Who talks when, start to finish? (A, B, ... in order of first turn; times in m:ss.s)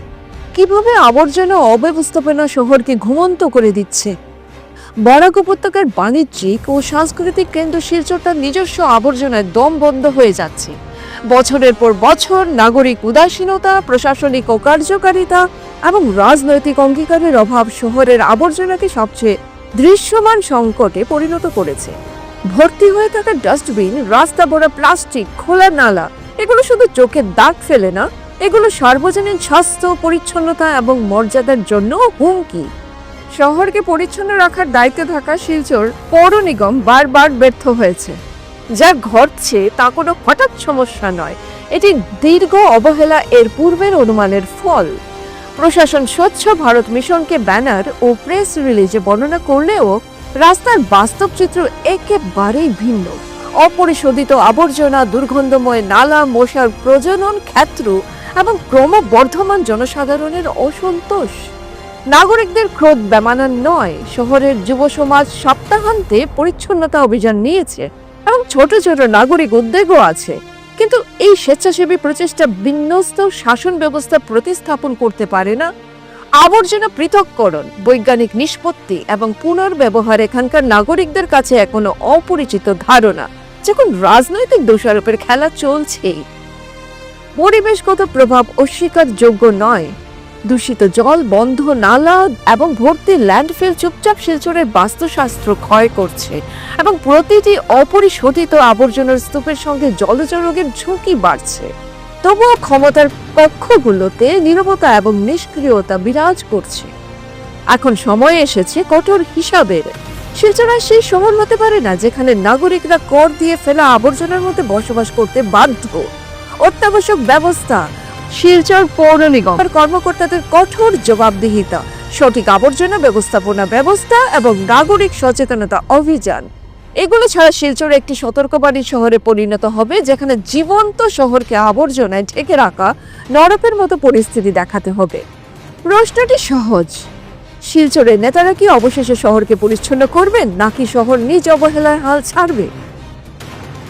0:00.5-0:04.1 A
0:05.1-0:10.7 A
0:11.3-0:21.9 A
0:22.5-0:32.6 A
0:33.4-0:38.2 A
0:38.8-0:44.9 A
0:45.6-1:01.4 A
1:02.1-1:15.7 A
1:16.4-1:26.2 A
1:27.4-1:29.9 A
1:30.5-1:41.7 A
1:42.2-1:46.9 A
1:47.7-1:56.0 A
1:56.6-1:57.8 A
1:58.4-2:06.4 A
2:07.0-2:15.2 A
2:15.9-2:17.0 A
2:17.7-2:22.7 A